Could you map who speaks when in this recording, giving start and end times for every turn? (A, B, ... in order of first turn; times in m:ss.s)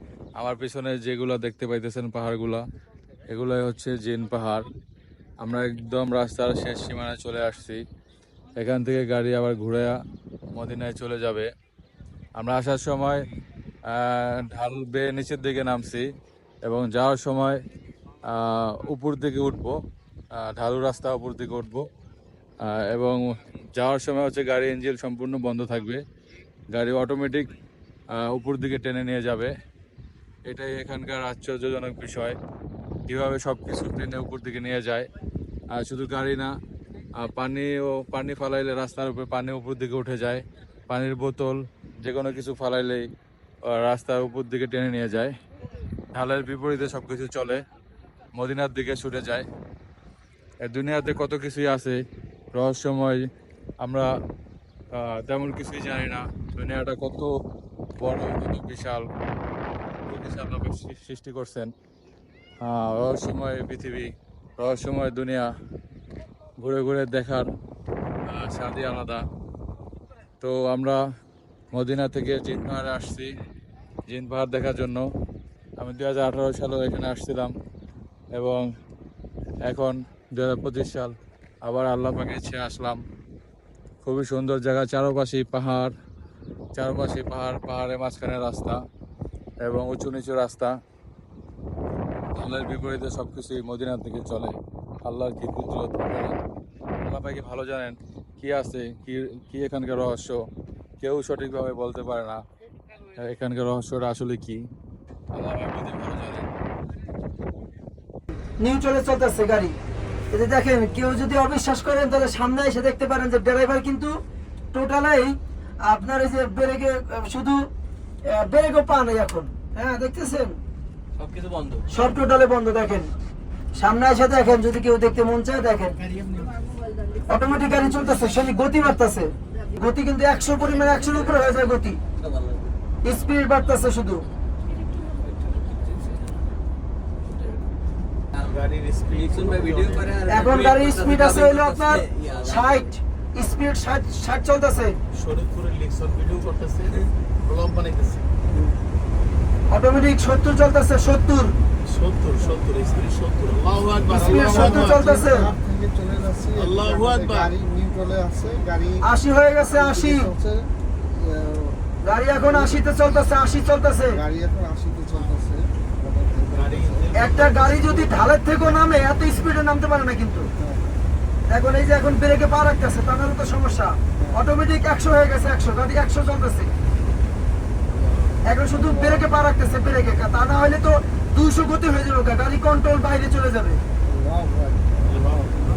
0:00.4-0:02.6 A
0:03.3-0:04.6 A
0:05.4-0:07.8 A
0:08.6-0:09.9 A
0:10.5-0:11.5 A
0:12.4-0:13.2 A
0:13.9-0:16.1 A
0:16.6-0:17.6 A
0:18.2-0:19.8 A
0:20.4-0:21.9 A
0:22.6-0:26.0 A
0:26.7-0:27.5 A
0:28.1-0:29.5 A
0:30.5-0:32.4 A
0:33.1-0:35.1 A
0:35.7-0:36.5 A
0:37.2-0:43.1 A
0:43.7-0:45.3 A
0:46.1-0:47.6 A
0:48.4-0:49.4 A
0:50.6-0:52.0 A
0:52.5-0:53.2 A
0:53.8-0:54.1 A
0:54.9-0:57.3 A
0:58.0-0:59.0 A
1:00.0-1:01.7 A
1:02.6-1:05.5 A
1:06.6-1:07.5 A
1:08.2-1:09.2 A
1:10.4-1:11.0 A
1:11.7-1:13.3 A
1:14.1-1:15.1 A
1:15.8-1:17.5 A
1:18.3-1:18.7 A
1:19.6-1:23.0 A
1:24.0-1:25.9 A
1:26.7-1:28.8 A
1:29.6-1:30.7 A
1:32.3-1:36.4 A
1:37.0-1:40.4 A
1:41.0-1:42.4 A
1:43.2-1:44.6 A
1:45.3-1:46.5 A
1:48.6-1:49.7 B
1:50.3-1:54.1 B
1:54.7-1:57.7 B
1:58.3-2:00.6 B
2:01.2-2:01.8 C
2:01.9-2:03.1 B
2:03.7-2:06.0 B
2:06.2-2:06.4 C
2:07.3-2:12.0 B
2:12.2-2:12.7 C
2:13.0-2:14.2 B
2:15.2-2:16.1 C
2:18.4-2:20.2 D
2:19.1-2:22.9 C
2:20.2-2:25.0 B
2:25.1-2:28.4 D
2:29.7-2:31.6 B
2:31.8-2:35.1 D
2:34.1-2:34.3 E
2:34.1-2:35.5 B
2:35.0-2:39.0 E
2:36.5-2:37.5 D
2:39.0-2:40.3 B
2:39.9-2:40.6 E
2:41.3-2:41.8 E
2:42.0-2:44.2 B
2:44.2-2:47.0 E
2:46.5-2:48.2 D
2:47.2-2:50.5 B
2:51.5-2:56.7 B
2:58.4-3:03.8 B
3:04.1-3:05.2 E
3:05.1-3:05.5 D